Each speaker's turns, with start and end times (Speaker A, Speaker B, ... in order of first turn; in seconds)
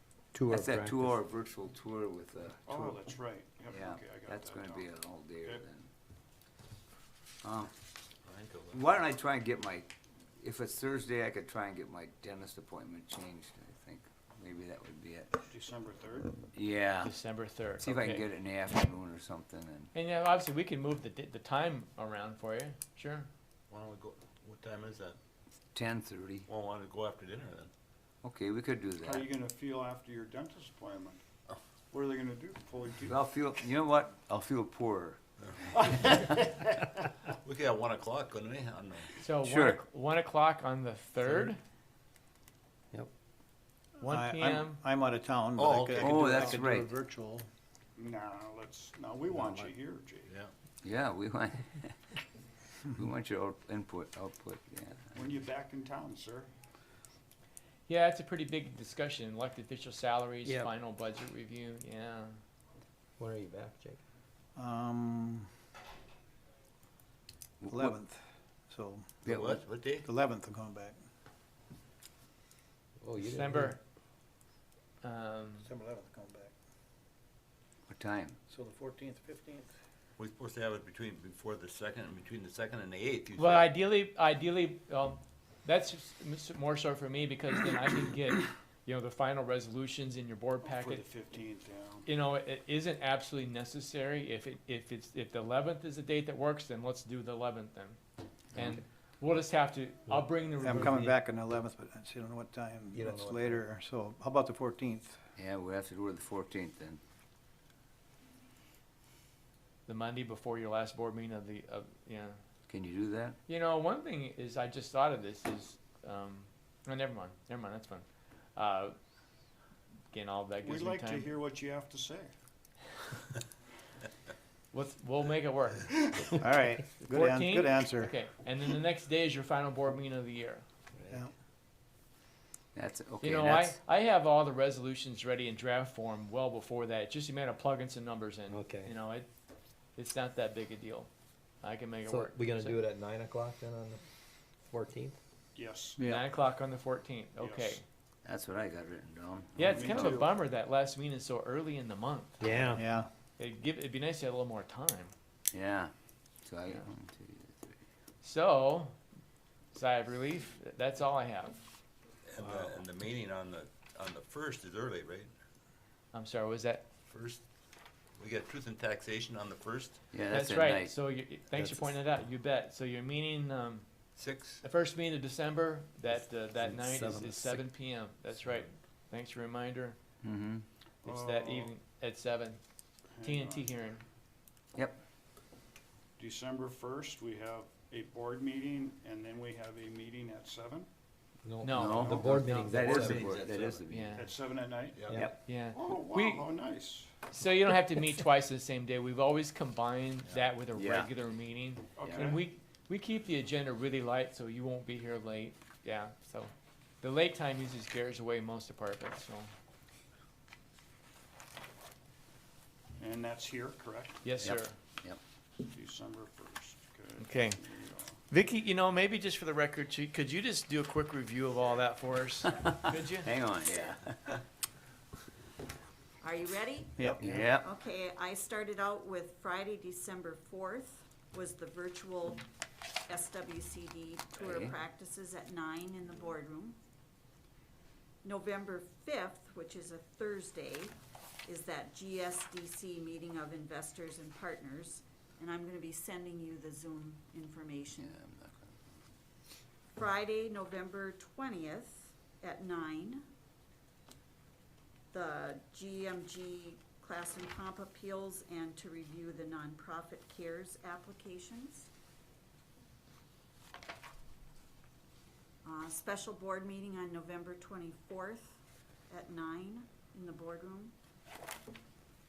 Speaker A: 0.3-1.2, 60.4-60.7, 63.2-64.0, 73.0-73.7, 102.9-103.6, 138.5-138.9, 142.1-144.0, 144.6-145.2, 152.4-152.8, 171.6-171.9, 176.6-177.5, 191.4-193.7, 227.2-227.6
Speaker B: 0.5-2.8, 3.6-5.9, 7.4-7.7, 8.7-15.3, 16.5-17.1, 17.8-19.9, 25.7-26.5, 28.2-29.3, 33.0-35.2, 39.5-39.8, 46.0-46.9, 50.8-51.9, 52.9-55.1, 67.6-68.0, 77.9-78.4, 105.3-107.0, 112.7-113.4, 132.7-133.8, 148.2-150.1, 155.5-157.7, 170.1-170.9, 180.2-180.7, 184.7-185.0, 191.8-194.2, 200.8-201.1, 214.4-215.2, 223.2-224.1, 234.4-234.7, 248.0-248.7
Speaker C: 2.6-4.9, 15.5-16.3, 29.0-31.2, 31.9-33.2, 36.1-36.5, 48.0-50.3, 55.1-56.5, 90.6-92.1, 120.6-122.3, 145.5-146.0, 147.4-147.8, 149.6-150.3, 181.0-181.7, 183.2-183.7, 186.2-190.9, 191.8-192.7, 194.1-197.1, 201.9-202.5, 213.0-214.4, 215.6-218.2
Speaker D: 8.2-8.8, 23.7-25.2, 26.5-27.7, 35.4-35.7, 37.4-39.1, 45.6-46.5, 69.2-70.1, 80.2-83.7, 162.2-165.3, 167.1-167.4, 168.2-170.0, 174.2-174.6, 192.7-193.7, 200.2-200.5
Speaker E: 17.0-18.2, 19.9-23.3, 39.2-41.6, 44.0-44.8, 57.9-62.4, 73.2-73.8, 75.0-75.7, 83.4-91.0, 92.0-98.0, 98.5-101.2, 109.9-112.4, 113.5-119.0, 120.1-121.3, 124.7-126.3, 127.0-130.6, 133.2-139.3, 139.9-141.1, 141.6-142.8, 146.0-147.8, 149.6-152.6, 153.4-155.1, 158.2-159.0, 159.7-161.6, 166.1-166.8, 170.3-173.8, 174.6-180.0, 181.0-182.6, 183.2-184.0, 191.6-192.7, 193.9-194.2, 195.4-196.5, 197.3-209.5, 214.2-214.8, 217.2-217.6, 218.3-223.3
Speaker F: 44.0-47.5, 64.5-65.5, 67.7-71.0, 75.6-76.5, 78.5-79.7, 100.6-105.2, 126.4-128.1, 146.0-146.2, 152.7-153.1, 227.0-227.3
Speaker G: 223.6-223.9, 226.2-232.4, 233.1-236.8, 238.2-248.2, 249.9-253.2, 255.1-261.9, 265.6-270.9